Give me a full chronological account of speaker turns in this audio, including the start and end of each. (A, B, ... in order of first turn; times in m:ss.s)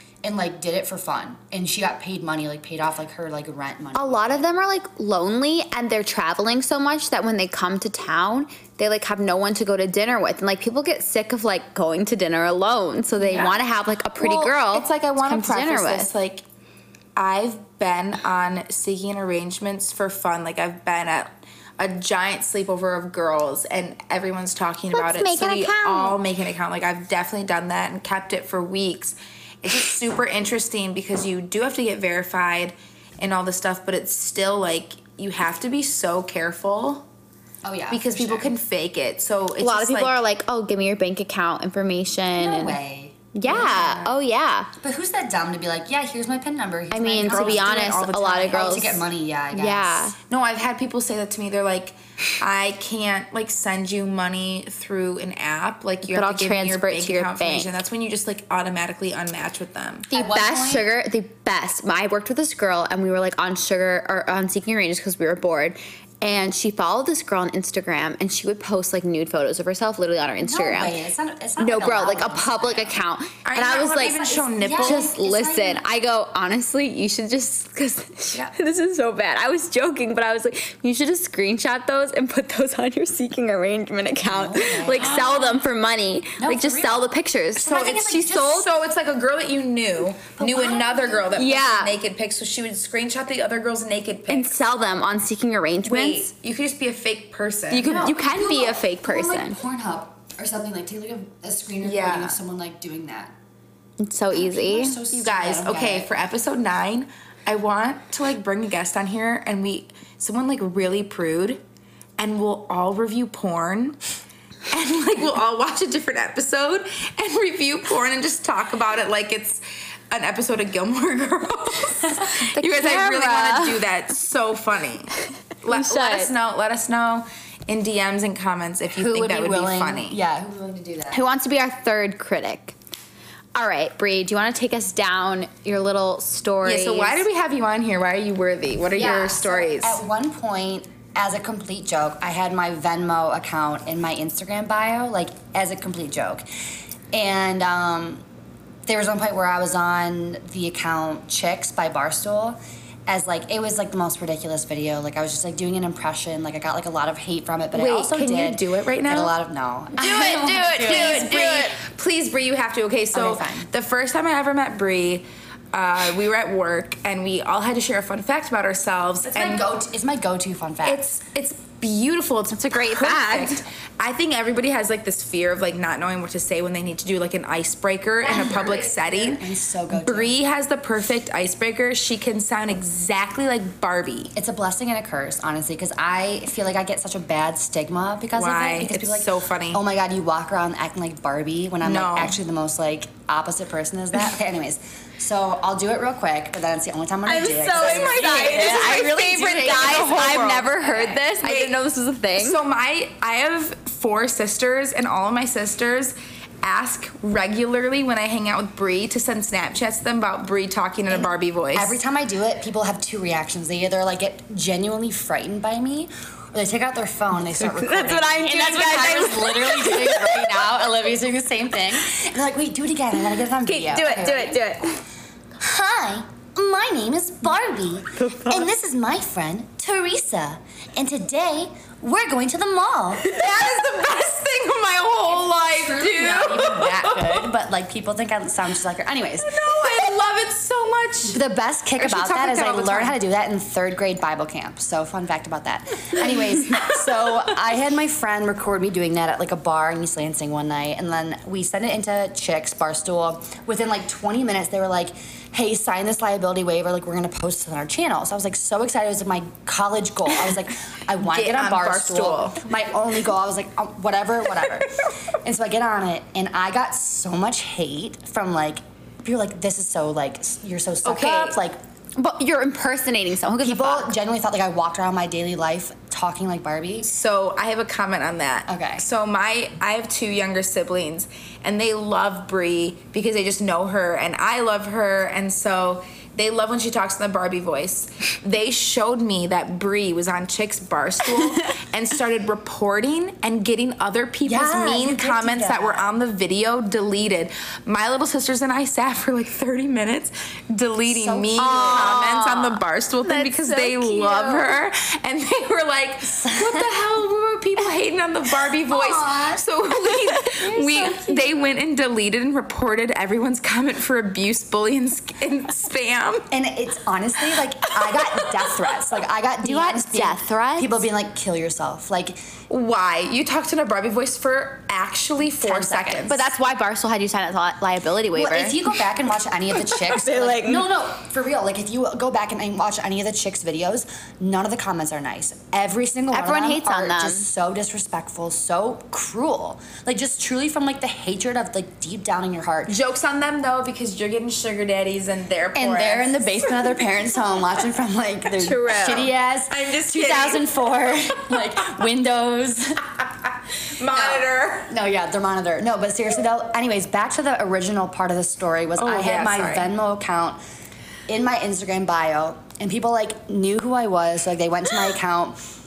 0:00.2-0:04.5 A
0:03.9-0:16.1 B
0:13.2-0:13.6 C
0:14.2-0:16.4 C
0:17.2-0:37.1 C
0:24.9-0:26.2 B
0:37.6-0:38.5 A
0:37.9-0:40.2 C
0:39.6-0:42.8 B
0:42.4-0:44.2 A
0:43.3-0:44.7 B
0:44.8-0:47.9 A
0:46.9-0:49.0 B
0:47.2-0:48.9 C
0:48.5-0:50.1 A
0:49.5-0:50.2 B
0:50.2-1:00.1 C
0:56.0-0:57.8 B
1:00.1-1:00.9 A
1:00.1-1:11.0 B
1:10.4-1:13.0 A
1:11.6-1:28.7 B
1:13.4-1:15.1 C
1:13.9-1:15.9 A
1:24.2-1:25.6 A
1:24.9-1:25.6 C
1:26.4-1:28.7 A
1:27.6-1:34.6 C
1:30.4-1:31.5 A
1:31.4-1:31.9 B
1:34.3-1:36.3 B
1:35.8-1:38.0 C
1:37.7-1:39.6 B
1:37.8-1:43.3 A
1:41.8-1:42.4 C
1:44.0-1:45.0 B
1:44.3-1:46.1 A
1:45.1-1:51.6 C
1:52.2-1:54.0 C
1:54.7-2:10.2 C
2:02.5-2:03.8 B
2:05.7-2:06.3 B
2:08.9-2:11.2 A
2:11.1-2:12.8 B
2:13.6-2:17.2 B
2:16.6-2:20.0 C
2:18.9-2:26.4 A
2:27.1-2:28.2 A
2:28.9-2:41.8 A
2:37.7-2:39.3 C
2:40.0-2:49.7 C
2:40.5-2:41.3 B
2:43.1-2:43.7 A
2:49.2-2:51.0 A
2:50.8-3:04.3 C
2:52.5-2:53.6 B
2:58.2-3:00.4 A
3:04.4-3:20.7 A
3:08.4-3:09.8 C
3:11.8-3:12.4 C
3:17.2-3:22.6 B
3:17.7-3:21.8 C
3:22.4-3:32.0 C
3:31.1-3:44.6 A
3:37.6-3:40.6 B
3:43.6-3:45.0 B
3:45.6-3:53.3 A
3:48.2-3:48.7 B
3:53.2-3:57.5 C
3:55.3-4:00.2 A
3:59.4-4:01.4 C
4:01.3-4:31.8 A
4:02.0-4:03.2 C
4:21.2-4:22.6 C
4:31.0-4:31.6 C
4:32.2-4:34.2 B
4:33.6-4:37.1 A
4:37.0-5:16.5 C
4:38.7-4:39.0 A
4:54.4-4:56.1 A
5:01.1-5:02.2 A
5:01.6-5:04.7 B
5:06.2-5:07.0 A
5:08.7-5:11.5 A
5:16.5-5:22.4 A
5:17.5-5:19.1 C
5:19.6-5:21.1 B
5:22.7-5:26.4 C
5:25.6-5:26.4 A
5:26.3-5:28.8 B
5:28.4-5:43.0 A
5:29.8-5:30.9 B
5:36.3-5:37.5 B
5:42.9-5:47.0 C
5:45.8-5:53.0 A
5:48.5-5:51.9 C
5:53.7-5:54.9 C
5:54.1-6:00.6 A
5:59.0-5:59.9 C
6:01.3-6:05.6 A